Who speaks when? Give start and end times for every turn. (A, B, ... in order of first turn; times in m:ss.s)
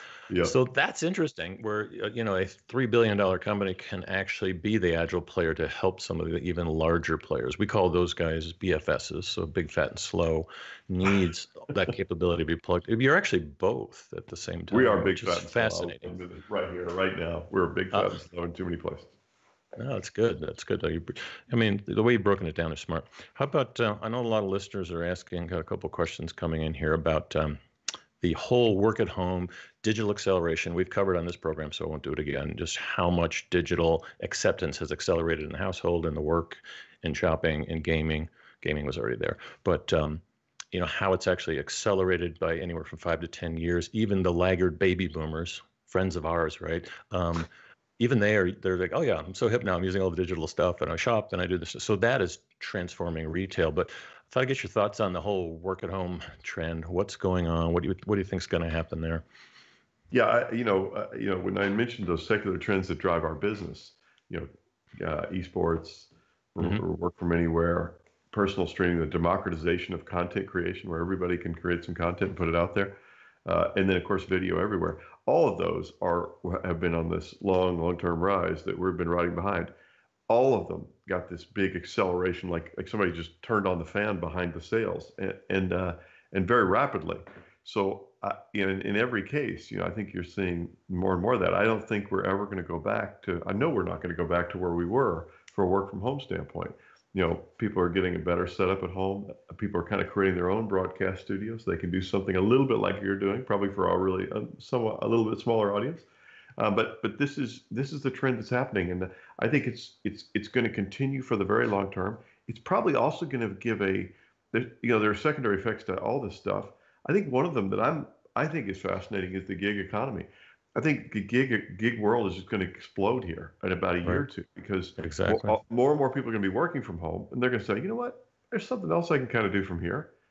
0:00.3-0:00.6 A
0:00.4-0:16.2 B
0:14.7-0:19.1 A
0:17.9-0:18.2 B
0:19.8-0:27.6 B
0:28.2-0:40.2 B
0:40.7-0:59.2 B
1:00.1-1:19.7 A
1:20.3-1:46.1 A
1:46.6-2:10.1 A
2:05.0-2:05.6 B